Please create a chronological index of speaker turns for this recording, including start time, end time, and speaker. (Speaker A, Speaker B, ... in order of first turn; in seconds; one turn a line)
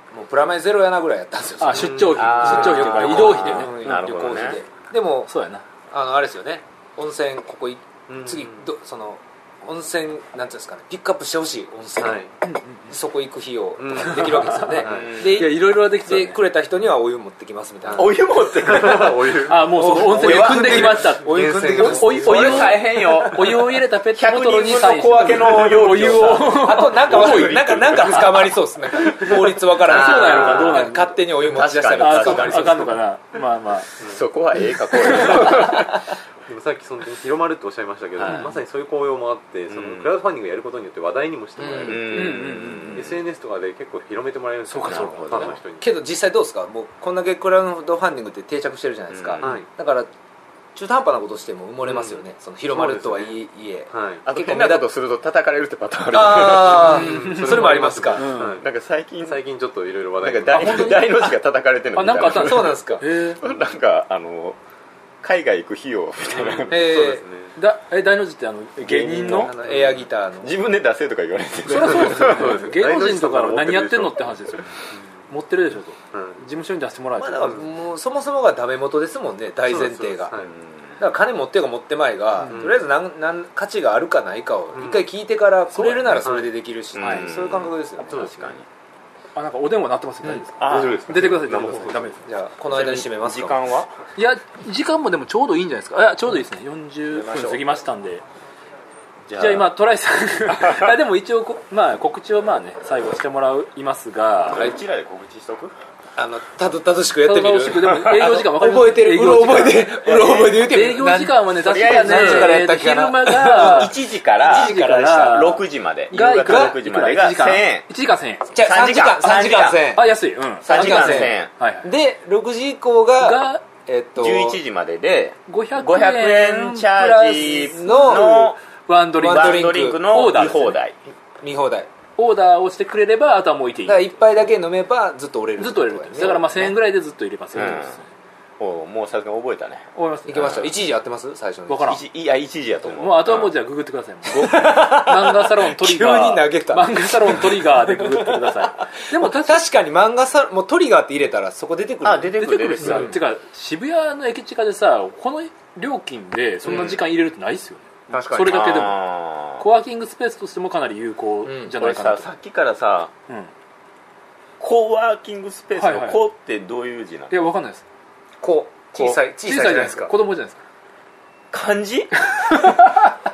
Speaker A: 0.1-5.3
Speaker B: 1.6-4.0
Speaker C: 1.7-2.6
Speaker D: 2.1-4.6
Speaker B: 5.3-5.6
Speaker A: 5.9-12.2
Speaker C: 8.1-8.7
Speaker C: 12.0-12.3
Speaker B: 12.4-12.9
Speaker A: 12.9-18.2
Speaker C: 13.8-15.2
Speaker B: 14.2-16.4
Speaker D: 14.8-15.5
Speaker C: 17.8-19.8
Speaker D: 17.9-19.4
Speaker B: 19.4-28.4
Speaker A: 19.7-22.8
Speaker D: 20.0-21.1
Speaker C: 21.2-23.0
Speaker D: 22.1-28.5
Speaker A: 26.4-33.0
Speaker C: 29.0-29.3
Speaker B: 29.8-31.2
Speaker D: 29.8-32.9
Speaker B: 31.9-33.9
Speaker D: 34.0-36.0
Speaker B: 35.1-35.5
Speaker C: 36.5-45.9
Speaker B: 38.3-38.6
Speaker D: 39.7-40.1
Speaker A: 41.6-42.0
Speaker D: 41.8-43.2
Speaker B: 42.1-43.1
Speaker B: 44.7-45.6
Speaker D: 44.8-45.6
Speaker A: 45.8-50.1
Speaker D: 49.1-49.6
Speaker C: 49.4-49.7
Speaker A: 50.7-54.9
Speaker C: 51.8-54.3
Speaker D: 54.2-57.1
Speaker A: 56.1-58.3
Speaker C: 56.4-58.7
Speaker B: 56.9-58.6
Speaker D: 58.3-59.4
Speaker C: 59.2-61.0
Speaker D: 60.2-64.6
Speaker B: 60.5-61.3
Speaker B: 62.0-63.4
Speaker A: 62.1-63.0
Speaker D: 65.2-66.8
Speaker C: 66.3-67.5
Speaker A: 66.7-67.2
Speaker B: 67.5-69.5
Speaker A: 68.9-70.5
Speaker D: 68.9-69.5
Speaker C: 69.5-70.0
Speaker D: 70.4-72.7
Speaker B: 71.7-77.6
Speaker C: 71.9-75.0
Speaker C: 76.1-76.5
Speaker A: 77.2-80.3
Speaker C: 77.4-77.7
Speaker C: 79.6-80.5
Speaker D: 80.3-81.0
Speaker A: 81.0-88.5
Speaker B: 82.4-82.7
Speaker C: 82.5-82.8
Speaker C: 84.7-85.1
Speaker B: 85.7-86.3
Speaker C: 86.2-86.5
Speaker D: 86.9-88.7
Speaker B: 87.0-87.3
Speaker C: 88.1-88.5
Speaker B: 89.4-92.3
Speaker D: 90.6-91.1
Speaker C: 90.6-92.2
Speaker A: 92.2-93.6
Speaker D: 92.7-93.9
Speaker B: 94.2-98.2
Speaker D: 97.1-97.6
Speaker D: 99.3-99.7
Speaker B: 99.4-104.7
Speaker D: 100.6-100.9
Speaker D: 104.5-105.7
Speaker A: 106.2-115.6
Speaker B: 107.2-110.0
Speaker D: 110.0-110.7
Speaker B: 110.5-118.5
Speaker D: 111.5-112.7
Speaker D: 113.4-117.9
Speaker A: 116.1-116.8
Speaker A: 118.5-120.1
Speaker D: 118.6-119.9
Speaker B: 119.9-121.9
Speaker D: 120.6-121.5
Speaker A: 120.6-124.6
Speaker B: 123.2-123.6
Speaker D: 124.2-128.6
Speaker B: 125.5-130.8
Speaker A: 127.4-128.6
Speaker A: 129.1-130.6
Speaker D: 129.2-130.9
Speaker A: 131.4-131.9
Speaker B: 132.2-134.2
Speaker A: 133.9-136.7
Speaker B: 135.6-138.1
Speaker D: 136.2-136.7
Speaker D: 137.5-138.0
Speaker D: 138.6-140.7
Speaker B: 139.9-140.6
Speaker A: 140.3-142.0
Speaker B: 141.7-142.0
Speaker D: 141.9-143.5
Speaker B: 142.9-149.6
Speaker A: 144.3-153.2
Speaker D: 152.0-153.2
Speaker B: 152.8-159.0
Speaker A: 156.6-157.0
Speaker D: 156.7-157.0
Speaker A: 158.1-158.8
Speaker D: 158.4-159.7
Speaker B: 159.6-162.3
Speaker A: 161.4-161.7
Speaker D: 161.7-163.1
Speaker D: 164.6-167.3
Speaker B: 165.8-166.2
Speaker B: 167.3-167.8
Speaker A: 168.4-170.1
Speaker B: 168.9-170.6
Speaker D: 171.5-172.3
Speaker B: 172.3-173.0